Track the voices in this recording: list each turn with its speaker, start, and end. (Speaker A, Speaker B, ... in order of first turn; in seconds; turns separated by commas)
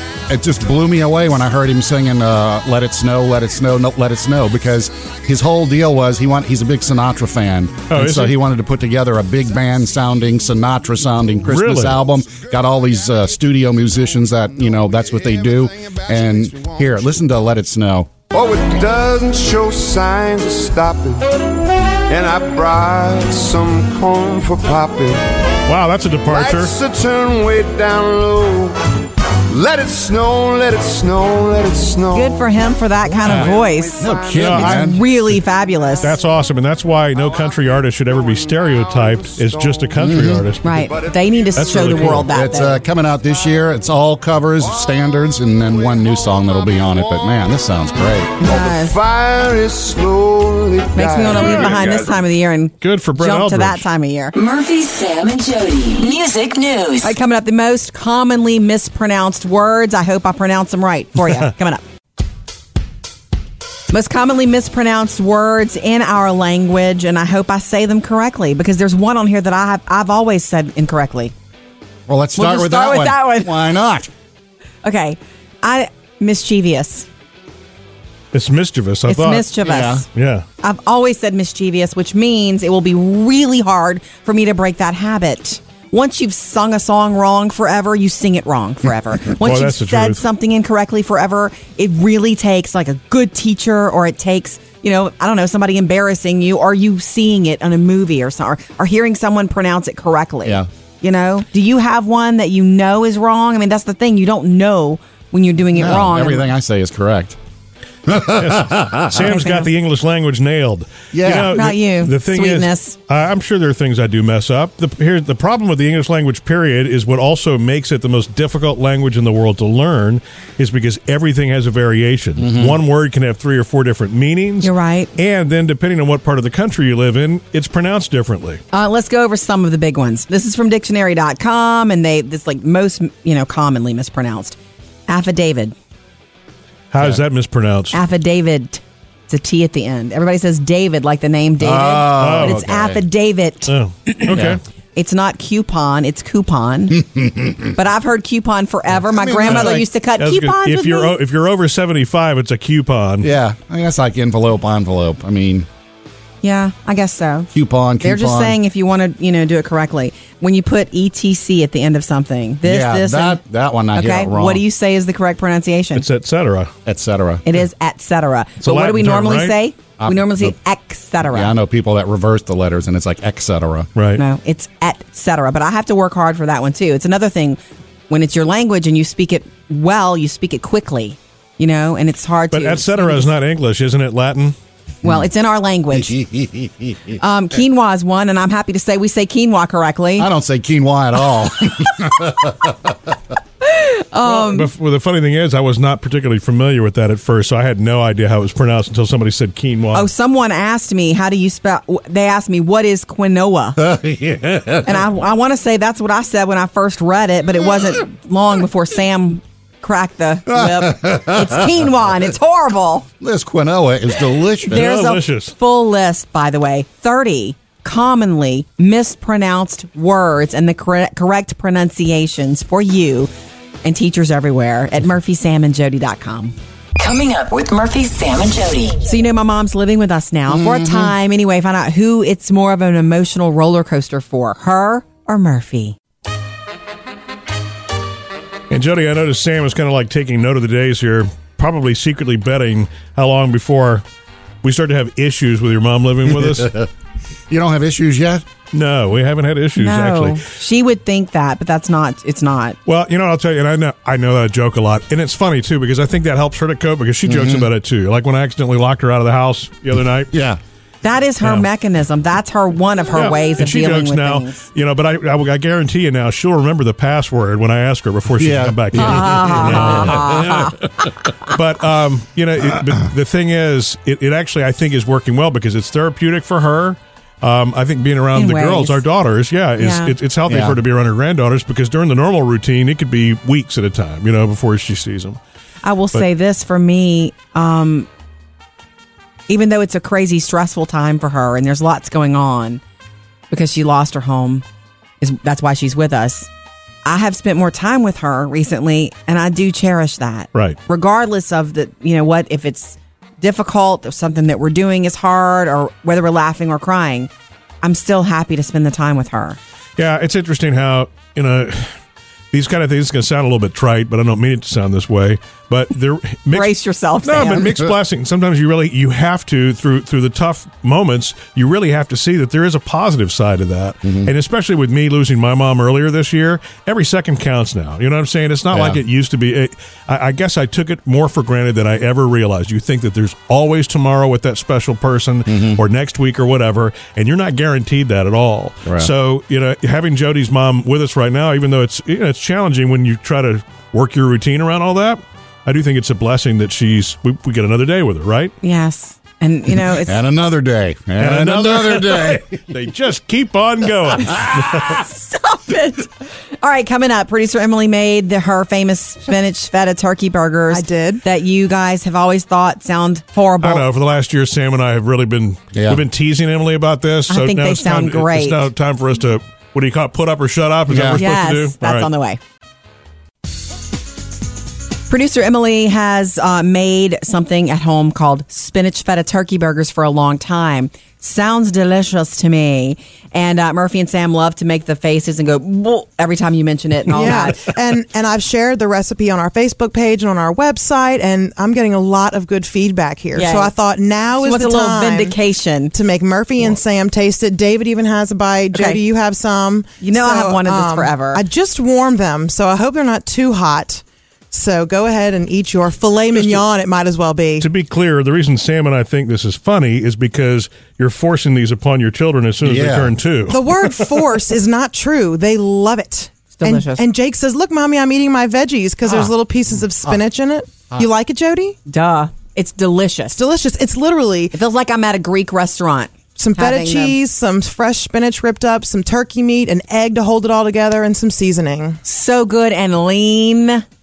Speaker A: 0.3-18.1, Speaker B: 7.9-8.4, Speaker B: 11.5-12.0, Speaker C: 14.6-17.1, Speaker C: 18.3-21.2, Speaker C: 22.1-25.2, Speaker B: 25.7-26.7, Speaker C: 26.3-28.8, Speaker C: 29.5-34.8, Speaker D: 32.1-36.1, Speaker A: 33.2-35.0, Speaker B: 34.3-35.0, Speaker C: 35.8-36.1, Speaker B: 36.0-40.7, Speaker C: 37.1-40.1, Speaker A: 40.0-40.4, Speaker C: 40.6-42.3, Speaker D: 40.6-42.8, Speaker B: 41.6-42.3, Speaker A: 42.3-48.4, Speaker C: 43.2-43.5, Speaker C: 44.6-47.5, Speaker C: 48.4-52.2, Speaker D: 48.4-49.0, Speaker D: 50.9-54.4, Speaker B: 51.3-51.7, Speaker B: 52.8-53.9, Speaker E: 54.4-57.1, Speaker D: 57.0-61.8, Speaker D: 63.9-71.3, Speaker A: 72.1-74.1, Speaker D: 72.4-73.6, Speaker D: 74.8-77.1, Speaker B: 78.3-79.5, Speaker D: 79.1-80.1, Speaker A: 79.6-80.0, Speaker B: 80.1-80.4, Speaker D: 80.6-106.5, Speaker B: 89.2-90.2, Speaker A: 105.7-107.4, Speaker A: 108.1-109.4, Speaker B: 108.4-128.6, Speaker D: 109.2-109.7, Speaker A: 111.1-111.6, Speaker D: 111.4-112.9, Speaker A: 122.4-122.8, Speaker D: 124.6-125.1, Speaker D: 128.7-134.6, Speaker D: 135.1-135.7, Speaker B: 136.9-138.0, Speaker D: 137.9-143.7, Speaker A: 141.6-143.0, Speaker B: 142.1-142.6, Speaker B: 143.7-144.6, Speaker A: 144.3-144.6, Speaker D: 144.9-147.0, Speaker A: 146.9-147.7, Speaker D: 147.7-151.1, Speaker A: 148.9-149.8, Speaker B: 149.4-153.3, Speaker A: 153.2-155.7, Speaker D: 156.4-157.5, Speaker A: 157.5-158.6, Speaker D: 158.0-163.4, Speaker A: 162.6-164.6, Speaker D: 163.9-166.1, Speaker B: 165.9-166.7, Speaker A: 166.8-167.4, Speaker D: 167.4-171.6, Speaker B: 168.6-169.5, Speaker A: 170.0-170.6, Speaker A: 171.2-173.9, Speaker B: 173.9-174.2, Speaker D: 174.2-183.3, Speaker B: 182.5-184.6, Speaker D: 185.0-186.2, Speaker A: 185.9-187.1, Speaker D: 187.2-190.3, Speaker A: 190.2-193.1, Speaker D: 193.6-194.7, Speaker B: 194.2-200.1, Speaker D: 199.9-203.8, Speaker A: 203.8-205.1, Speaker D: 204.8-213.1, Speaker A: 210.5-211.7, Speaker A: 213.2-214.9, Speaker D: 214.7-223.3, Speaker B: 214.7-215.5, Speaker D: 223.8-226.5, Speaker E: 227.0-229.0, Speaker D: 229.0-235.9, Speaker A: 230.5-231.1, Speaker B: 238.7-244.0, Speaker B: 244.6-246.7, Speaker A: 246.2-246.9, Speaker A: 247.5-248.4, Speaker B: 248.7-250.4, Speaker D: 249.8-252.8, Speaker B: 252.9-260.3, Speaker A: 257.2-257.7, Speaker A: 260.3-260.6, Speaker D: 261.0-264.6, Speaker B: 261.4-261.7, Speaker B: 263.1-270.7, Speaker A: 268.4-270.7, Speaker D: 268.9-270.8, Speaker B: 271.4-285.4, Speaker A: 272.6-273.0, Speaker D: 278.3-279.0, Speaker D: 279.8-280.1, Speaker A: 280.5-280.8, Speaker D: 285.8-288.1, Speaker D: 289.5-292.8, Speaker D: 293.5-294.6, Speaker D: 295.2-296.5, Speaker D: 297.1-307.3, Speaker D: 307.8-309.6, Speaker B: 310.0-311.9, Speaker B: 312.5-316.7, Speaker D: 316.5-317.7, Speaker B: 317.2-348.6, Speaker A: 324.0-324.3, Speaker A: 328.7-329.0, Speaker A: 335.5-335.8, Speaker A: 338.9-339.1, Speaker D: 348.6-350.2, Speaker A: 349.8-352.6, Speaker B: 351.2-355.0, Speaker A: 354.2-355.0, Speaker D: 354.8-363.9, Speaker F: 360.7-361.2, Speaker B: 363.6-372.1, Speaker A: 365.7-366.0, Speaker D: 367.3-368.7, Speaker A: 370.9-371.2, Speaker D: 371.1-372.4, Speaker D: 375.1-387.6, Speaker F: 387.1-395.4, Speaker D: 393.4-393.7, Speaker D: 394.4-395.9, Speaker F: 395.9-407.7, Speaker D: 398.7-399.0, Speaker D: 400.0-401.4, Speaker B: 407.6-413.9, Speaker A: 412.6-413.1, Speaker F: 413.5-421.8, Speaker D: 416.6-417.1, Speaker D: 421.9-423.4, Speaker F: 423.3-424.6, Speaker D: 424.5-427.1, Speaker F: 426.4-432.0, Speaker D: 432.1-433.8